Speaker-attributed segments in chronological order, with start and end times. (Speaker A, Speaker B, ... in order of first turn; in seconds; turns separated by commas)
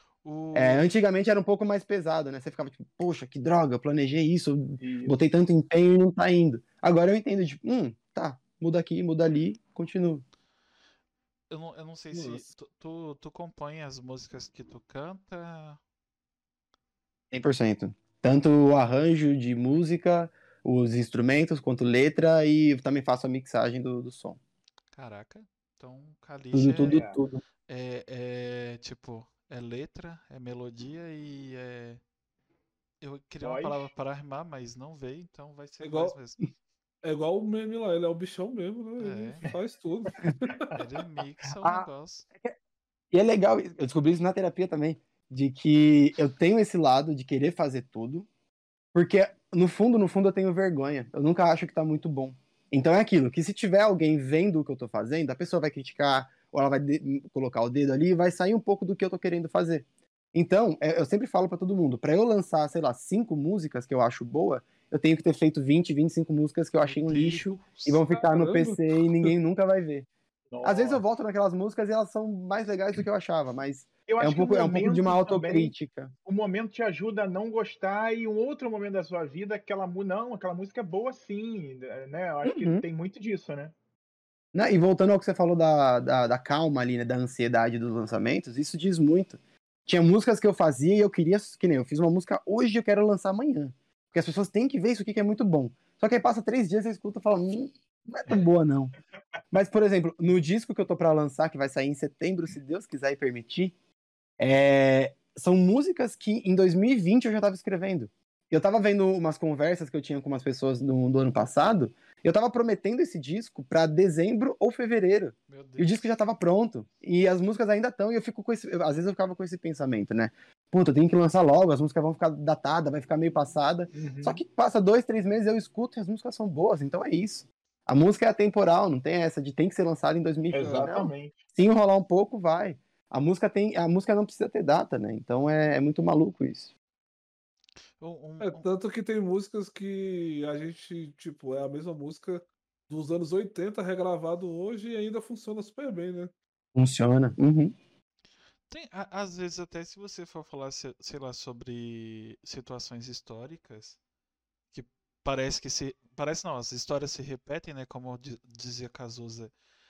Speaker A: 0.2-0.9, Speaker B: 0.5-10.2, Speaker C: 4.8-5.2, Speaker A: 11.5-15.8, Speaker D: 12.1-12.4, Speaker B: 17.3-24.4, Speaker A: 24.9-27.1, Speaker B: 26.5-27.4, Speaker C: 26.8-27.2, Speaker A: 27.7-32.0, Speaker A: 33.0-36.5, Speaker C: 33.4-33.9, Speaker D: 35.8-36.2, Speaker D: 37.0-40.8, Speaker A: 39.0-39.4, Speaker A: 40.8-42.2, Speaker B: 41.6-41.9, Speaker B: 43.1-48.3, Speaker B: 48.9-70.1, Speaker A: 66.8-68.0, Speaker D: 68.1-69.3, Speaker C: 70.5-71.0, Speaker B: 70.6-76.1, Speaker C: 74.1-75.7, Speaker C: 76.2-83.7, Speaker B: 82.4-82.8, Speaker B: 84.5-98.9, Speaker B: 99.5-103.7, Speaker B: 104.4-136.7, Speaker A: 115.5-116.0, Speaker C: 123.9-124.4, Speaker C: 130.5-131.3, Speaker D: 130.6-130.9, Speaker A: 138.0-138.7, Speaker D: 138.4-146.3, Speaker B: 146.8-147.7, Speaker A: 148.7-154.0, Speaker A: 154.7-159.5